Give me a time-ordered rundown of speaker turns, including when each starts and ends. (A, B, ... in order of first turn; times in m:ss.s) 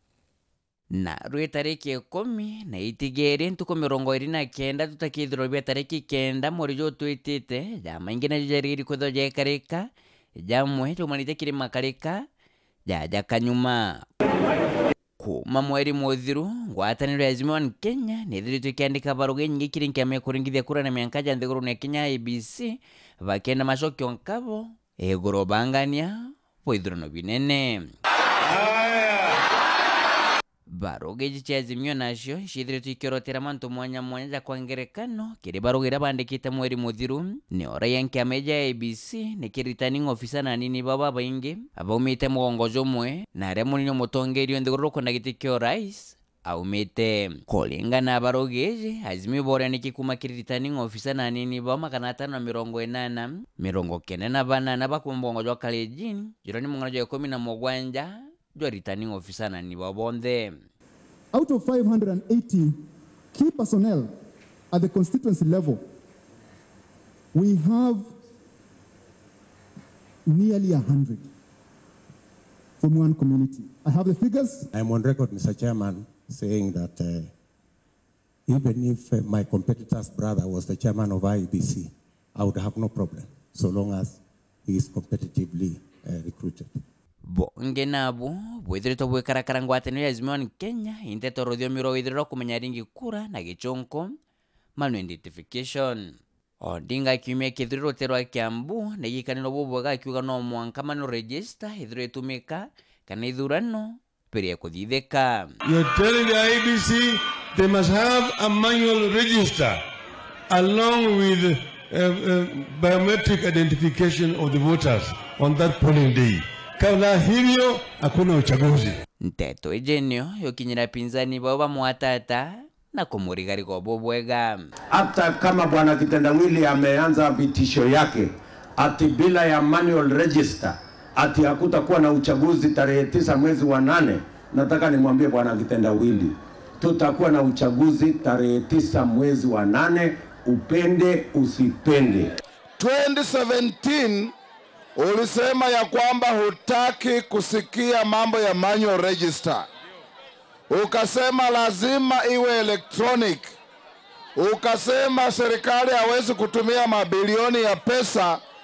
0:00.9-0:09.8 A
0:10.4-0:12.2 A
0:12.9-0:14.0 A
0:15.2-0:27.8 A
0:28.5-0:29.3 B
0:30.7-1:00.6 A
1:01.3-1:02.7 C
1:03.3-1:04.1 C
1:04.7-1:05.8 C
1:07.3-1:08.0 C
1:10.3-1:11.2 C
1:12.8-1:14.7 C
1:14.7-1:17.3 D
1:18.5-1:26.8 D
1:27.3-1:34.1 A
1:34.8-1:45.5 A
1:45.7-1:49.8 B
1:50.5-1:59.0 B
1:59.2-2:04.6 A
2:04.9-2:22.3 E
2:22.8-2:24.1 F
2:25.0-2:29.4 F
2:30.7-2:33.4 F
2:34.4-2:38.3 F